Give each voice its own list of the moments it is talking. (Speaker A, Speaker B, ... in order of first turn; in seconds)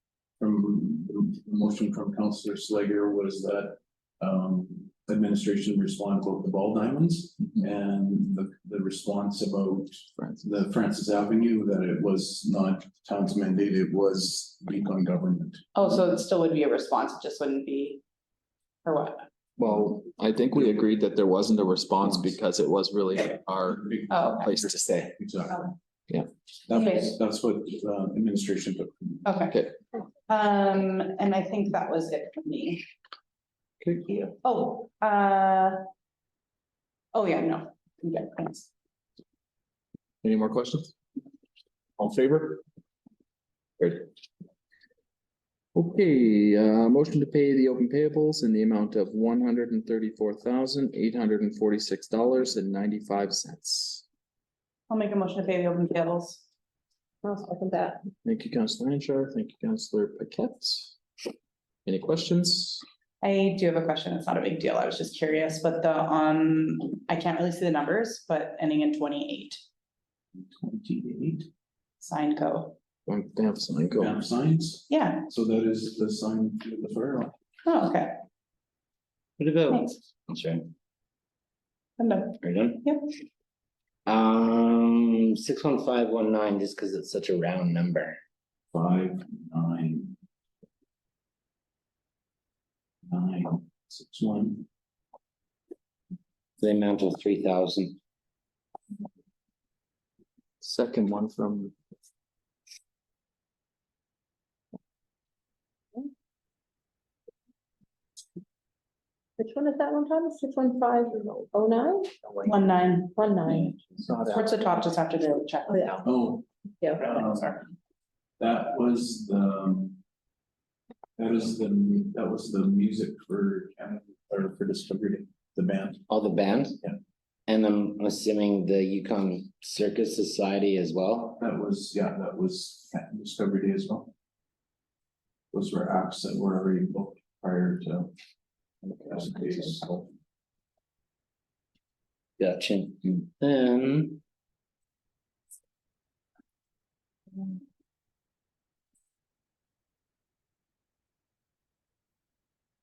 Speaker A: 0.4-15.7, 22.0-22.4, 23.7-25.7, 26.7-29.2, 70.4-71.5, 74.0-77.3, 88.7-90.2, 93.1-94.7, 116.0-116.4, 117.0-117.6, 118.4-120.0, 121.2-126.0, 131.4-134.1, 135.5-138.1, 138.8-140.1
Speaker B: 10.2-10.5, 19.6-25.1, 40.2-40.9, 42.0-42.6, 43.8-44.1, 45.7-54.0, 58.2-61.0, 61.9-62.8, 73.1-74.2, 100.6-101.7
Speaker C: 15.7-18.0, 18.8-19.3, 24.1-24.5, 26.7-27.1, 29.2-29.6, 30.3-32.8, 34.0-35.8, 37.1-38.7, 54.9-56.5, 63.2-69.6, 72.0-72.8, 74.9-75.2, 77.6-78.1, 82.0-83.1, 112.4-113.2, 114.2-116.0, 117.0-117.6
Speaker D: 57.2-58.0, 109.4-112.1, 113.1-113.7, 115.7-116.0
Speaker E: 79.4-80.7, 82.4-82.8, 84.0-88.2, 96.6-98.0, 126.1-126.8, 127.5-131.4, 142.4-144.2